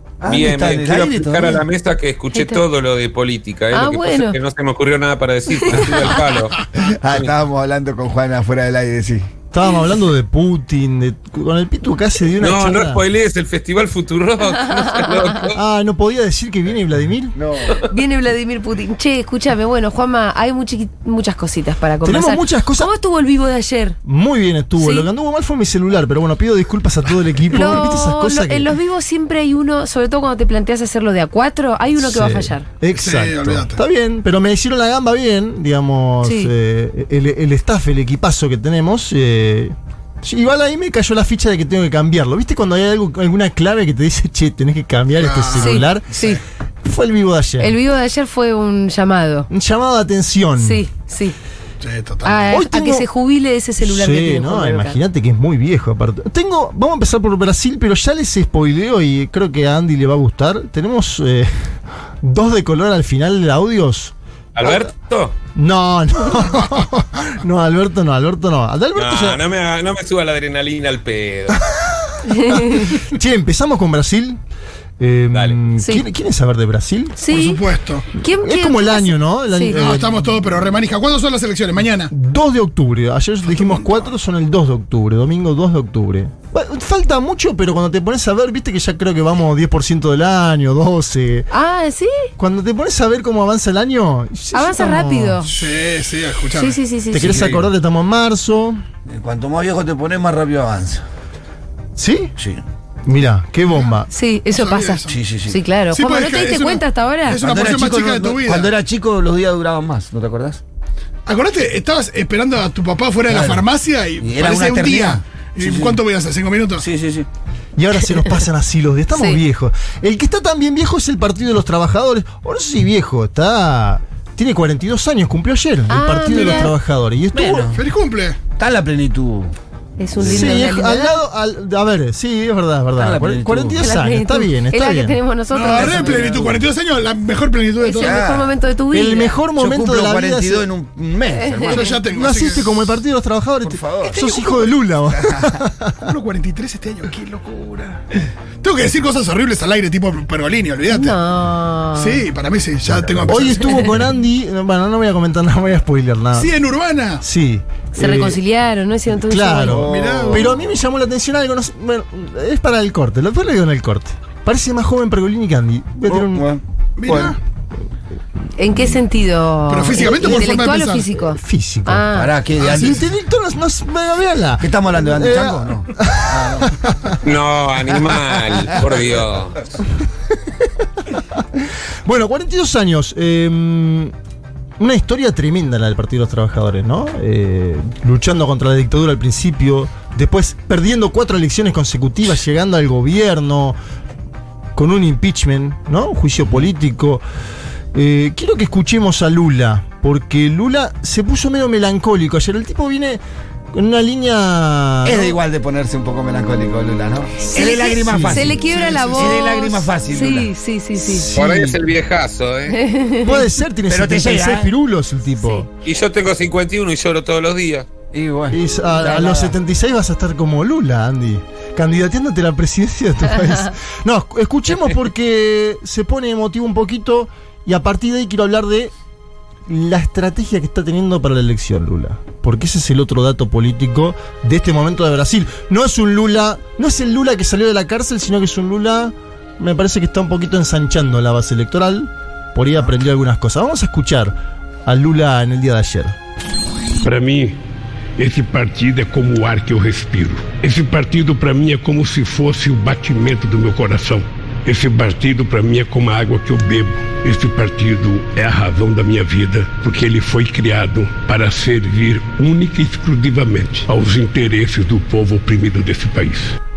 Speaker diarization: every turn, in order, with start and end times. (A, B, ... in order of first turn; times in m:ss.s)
0:00.2-0:01.6 A
0:00.3-0:07.3 B
0:02.3-0:02.6 C
0:03.7-0:04.4 C
0:06.8-0:09.3 A
0:09.5-0:13.0 D
0:12.4-0:15.6 B
0:14.5-0:15.5 C
0:15.5-0:17.4 D
0:17.3-0:17.8 A
0:17.8-0:24.0 C
0:22.0-0:22.9 D
0:24.0-0:28.7 D
0:24.8-0:25.1 C
0:27.5-0:32.7 C
0:32.0-0:46.1 D
0:32.9-0:33.8 E
0:36.2-0:36.5 C
0:45.2-0:46.4 E
0:45.6-0:46.4 C
0:46.8-0:47.8 D
0:47.6-0:49.5 C
0:49.5-0:50.8 D
0:50.6-0:51.4 C
0:51.8-0:52.6 E
0:52.2-0:55.0 C
0:52.5-0:53.1 D
0:53.8-1:04.1 D
1:04.6-1:05.4 B
1:05.6-1:09.4 D
1:09.0-1:11.6 B
1:12.3-1:13.0 C
1:12.3-1:14.4 D
1:15.0-1:17.2 D
1:15.8-1:16.0 C
1:17.2-1:17.6 C
1:17.3-1:18.1 E
1:18.1-1:19.8 C
1:18.3-1:20.3 D
1:19.7-1:22.1 E
1:22.1-1:31.5 D
1:23.5-1:24.1 E
1:31.5-1:32.3 C
1:32.4-1:35.5 D
1:34.5-1:35.6 C
1:35.5-1:36.8 E
1:36.5-1:37.5 C
1:37.1-1:38.8 D
1:37.2-1:37.7 A
1:39.1-1:41.0 A
1:42.0-1:42.3 D
1:42.4-1:42.6 A
1:43.1-1:44.1 D
1:44.1-1:47.4 C
1:44.5-1:45.2 E
1:45.1-1:45.6 A
1:45.9-1:48.7 E
1:47.3-1:50.6 A
1:51.3-1:56.9 E
1:53.3-1:53.7 A
1:54.2-1:56.0 A
1:56.8-1:57.3 A
1:57.8-2:07.7 D
1:59.1-1:59.4 C
2:05.9-2:06.7 C
2:07.3-2:07.8 A
2:07.7-2:08.4 E
2:08.6-2:09.5 A
2:10.0-2:11.2 C
2:10.2-2:10.6 A
2:10.2-2:15.2 D
2:13.0-2:13.8 A
2:13.8-2:16.4 C
2:15.5-2:18.2 E
2:15.9-2:16.6 A
2:17.8-2:19.4 C
2:18.0-2:18.5 A
2:18.9-2:20.7 D
2:19.6-2:22.0 A
2:21.4-2:22.0 C
2:21.7-2:22.7 E
2:22.1-2:26.0 D
2:23.6-2:24.2 A
2:24.1-2:24.6 C
2:25.1-2:25.5 A
2:26.0-2:28.0 E
2:28.6-2:31.2 E
2:30.9-2:32.2 C
2:31.9-2:33.8 E
2:32.8-2:33.6 A
2:33.3-2:36.6 D
2:36.3-2:37.2 E
2:37.2-2:38.4 D
2:37.9-2:39.9 C
2:39.2-2:46.5 D
2:39.6-2:40.6 A
2:39.9-2:40.5 E
2:46.1-2:47.4 A
2:47.0-2:47.4 E
2:48.6-2:52.3 C
2:49.7-2:51.1 E
2:51.2-2:52.1 D
2:52.1-2:53.0 A
2:52.6-2:53.0 E
2:52.7-2:57.2 D
2:54.6-2:56.7 A
2:57.2-2:59.7 B
3:01.2-3:04.1 D
3:04.8-3:13.8 D
3:14.8-3:17.2 D
3:17.9-3:25.4 D
3:25.0-3:30.5 A
3:27.4-3:31.3 C
3:27.8-3:28.6 D
3:28.8-3:29.3 E
3:31.0-3:31.8 D
3:31.4-3:32.8 B
3:32.7-3:33.4 C
3:33.2-3:35.7 D
3:33.9-3:34.7 A
3:35.8-3:37.9 B
3:38.1-3:39.6 A
3:38.5-3:48.9 D
3:49.7-4:04.3 D
4:04.8-4:06.2 D
4:07.0-4:07.6 F
4:08.2-4:26.6 F